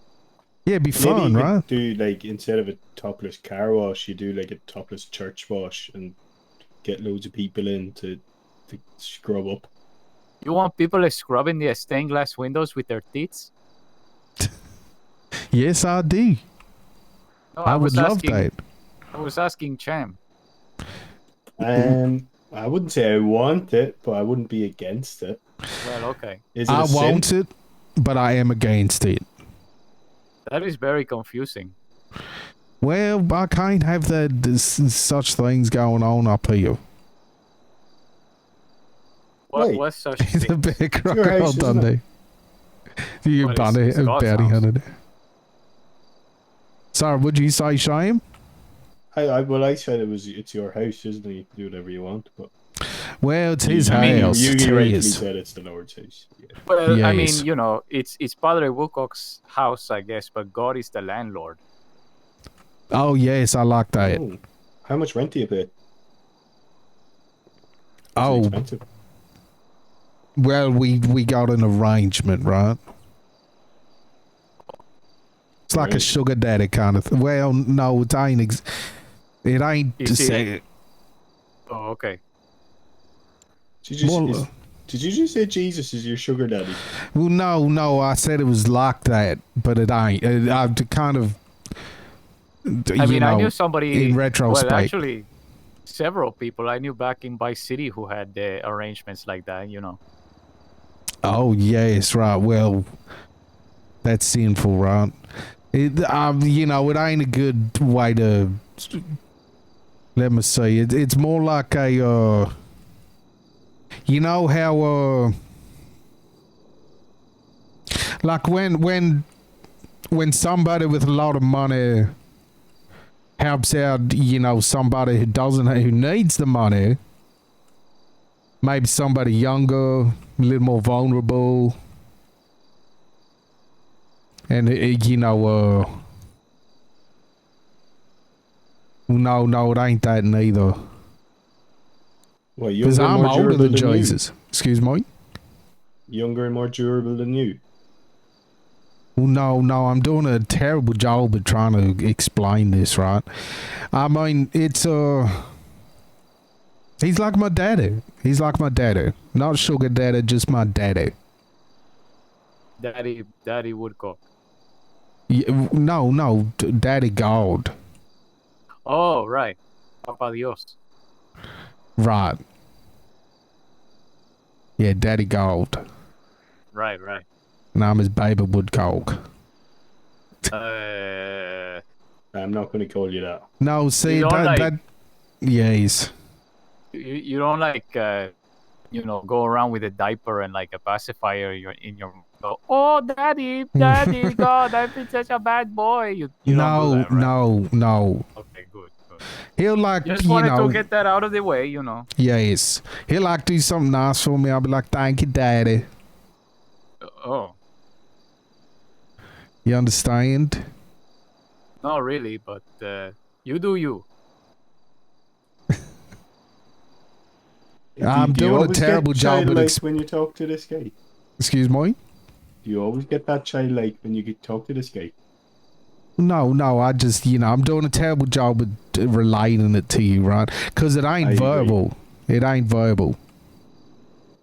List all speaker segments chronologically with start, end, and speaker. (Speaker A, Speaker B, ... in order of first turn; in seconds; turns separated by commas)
Speaker A: 0.7-1.6, Speaker B: 0.9-6.2, Speaker B: 6.8-9.7, Speaker C: 10.4-13.5, Speaker A: 15.5-16.4, Speaker C: 17.6-18.5, Speaker A: 17.6-18.5, Speaker C: 19.1-20.2, Speaker B: 21.6-25.4, Speaker C: 25.8-26.4, Speaker B: 26.5-27.3, Speaker A: 26.7-29.3, Speaker C: 30.5-31.7, Speaker A: 32.8-36.8, Speaker C: 39.5-40.8, Speaker B: 39.5-39.8, Speaker A: 40.2-42.0, Speaker B: 41.0-41.9, Speaker A: 43.2-44.9, Speaker C: 43.4-44.6, Speaker A: 46.9-48.2, Speaker B: 49.1-52.5, Speaker A: 53.2-55.2, Speaker B: 53.6-56.5, Speaker C: 53.9-54.4, Speaker C: 56.7-61.6, Speaker A: 56.9-57.5, Speaker A: 62.9-64.2, Speaker B: 64.0-65.7, Speaker A: 68.2-68.6, Speaker B: 68.2-68.8, Speaker A: 70.4-72.8, Speaker A: 75.7-78.6, Speaker B: 75.7-76.1, Speaker A: 79.4-80.6, Speaker C: 80.0-80.5, Speaker C: 81.7-82.2, Speaker B: 83.8-86.8, Speaker A: 84.0-84.5, Speaker A: 87.1-91.4, Speaker A: 92.7-94.9, Speaker C: 93.0-95.3, Speaker C: 95.8-100.0, Speaker A: 101.2-102.8, Speaker A: 104.0-105.1, Speaker A: 105.7-109.0, Speaker A: 110.2-112.5, Speaker A: 114.1-115.3, Speaker A: 118.2-119.2, Speaker A: 120.1-122.1, Speaker A: 123.4-127.0, Speaker A: 128.6-131.8, Speaker A: 134.5-135.9, Speaker A: 139.1-140.8, Speaker B: 142.6-144.2, Speaker A: 142.8-145.0, Speaker B: 146.1-147.6, Speaker A: 149.2-153.2, Speaker A: 153.9-155.5, Speaker A: 157.0-161.1, Speaker C: 162.8-164.2, Speaker A: 165.3-167.7, Speaker C: 168.8-170.8, Speaker A: 172.0-172.4, Speaker A: 174.8-175.8, Speaker C: 176.7-177.2, Speaker A: 177.7-179.1, Speaker C: 180.5-181.8, Speaker B: 182.3-183.4, Speaker A: 183.6-184.8, Speaker C: 184.0-184.7, Speaker A: 185.4-186.1, Speaker C: 186.9-188.3, Speaker C: 188.9-197.3, Speaker A: 193.8-194.5, Speaker A: 196.4-198.2, Speaker C: 198.3-199.2, Speaker A: 199.6-200.8, Speaker C: 200.0-202.1, Speaker A: 202.2-205.8, Speaker C: 207.0-207.5, Speaker A: 209.6-210.6, Speaker C: 211.8-214.1, Speaker B: 218.0-220.9, Speaker A: 218.0-219.8, Speaker A: 221.4-222.0, Speaker B: 222.6-225.1, Speaker A: 226.2-233.2, Speaker B: 231.2-231.8